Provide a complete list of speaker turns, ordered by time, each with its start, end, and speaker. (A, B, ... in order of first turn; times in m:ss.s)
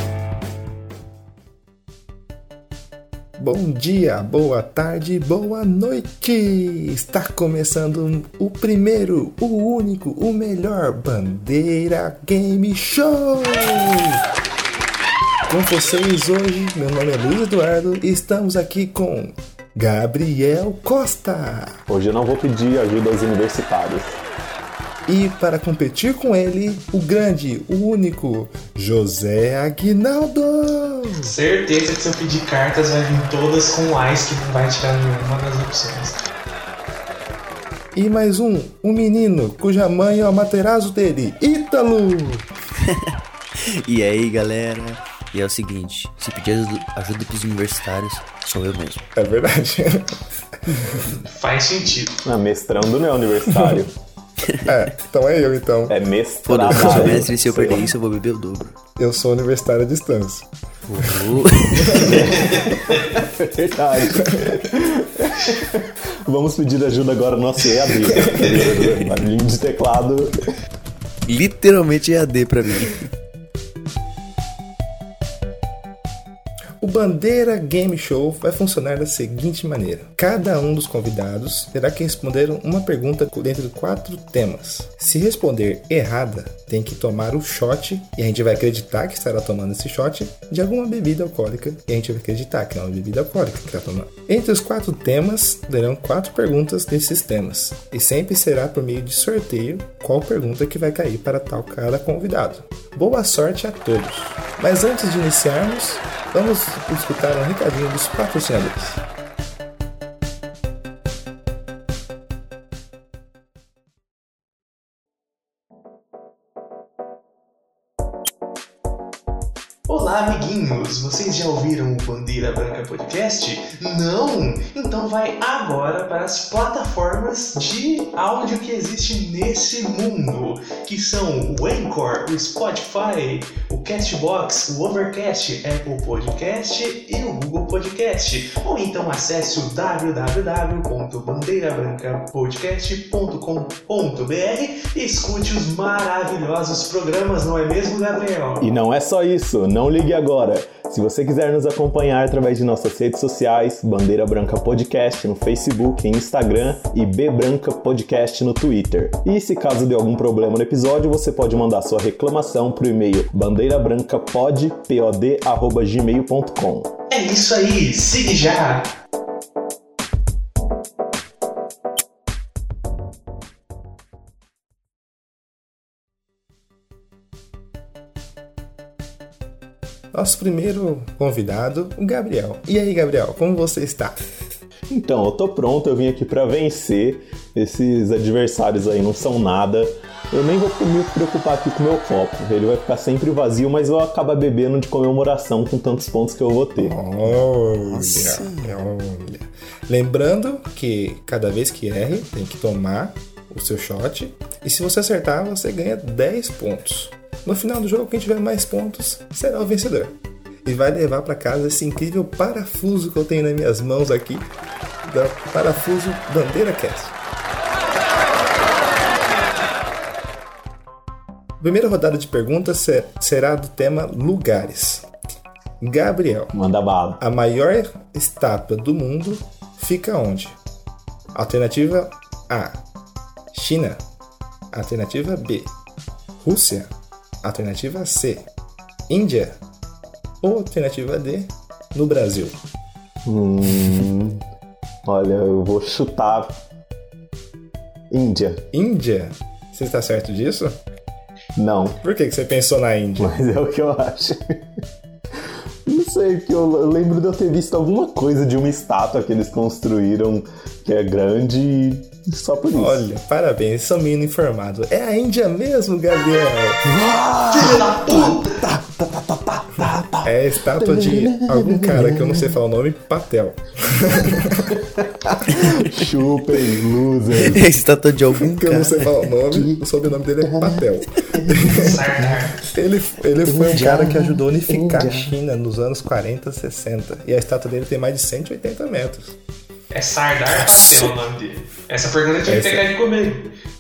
0:03.4-0:14.2 A
0:15.5-0:21.8 A
0:21.9-0:24.2 B
0:25.1-0:31.4 A
0:31.2-0:36.2 C
0:38.0-0:42.5 A
0:42.8-0:43.1 D
0:43.7-0:49.1 D
0:49.2-0:51.0 A
0:51.1-0:52.2 C
0:52.2-0:53.9 B
0:54.6-0:56.0 A
0:55.9-0:57.9 B
0:56.4-0:58.8 D
0:56.7-0:57.3 A
0:59.0-1:00.5 A
1:00.9-1:02.4 D
1:01.9-1:02.8 A
1:02.0-1:10.5 B
1:08.2-1:08.9 C
1:11.3-1:13.0 D
1:16.8-1:49.0 A
1:59.9-2:28.7 C
2:28.6-2:46.9 B
2:47.1-2:49.0 C
3:00.1-3:04.2 A
3:04.9-3:17.0 B
3:16.8-3:34.5 A
3:17.8-3:18.8 D
3:35.0-3:37.1 A
3:41.6-3:45.1 A
3:45.8-3:46.6 A
3:46.5-3:47.2 B
3:47.2-3:50.6 A
3:51.3-3:52.8 A
3:53.5-3:54.0 A
3:54.7-3:55.7 A
3:56.4-3:56.9 A
3:57.4-3:58.5 A
3:59.1-3:59.6 A
4:00.4-4:02.6 A
4:03.2-4:04.4 B
4:05.1-4:06.6 B
4:08.1-4:08.6 B
4:08.7-4:10.8 A
4:11.6-4:12.0 B
4:12.0-4:13.3 A
4:13.2-4:14.6 B
4:15.9-4:23.0 B
4:22.8-4:26.8 A
4:26.8-4:32.4 B
4:27.5-4:28.6 C
4:30.2-4:34.8 A
4:35.3-4:37.6 B
4:37.5-4:39.4 D
4:38.4-4:42.0 A
4:40.5-4:40.8 B
4:41.7-4:42.6 C
4:42.7-4:49.4 A
4:43.5-4:44.9 D
4:44.9-4:45.1 B
4:49.9-4:53.5 C
4:52.4-4:52.9 A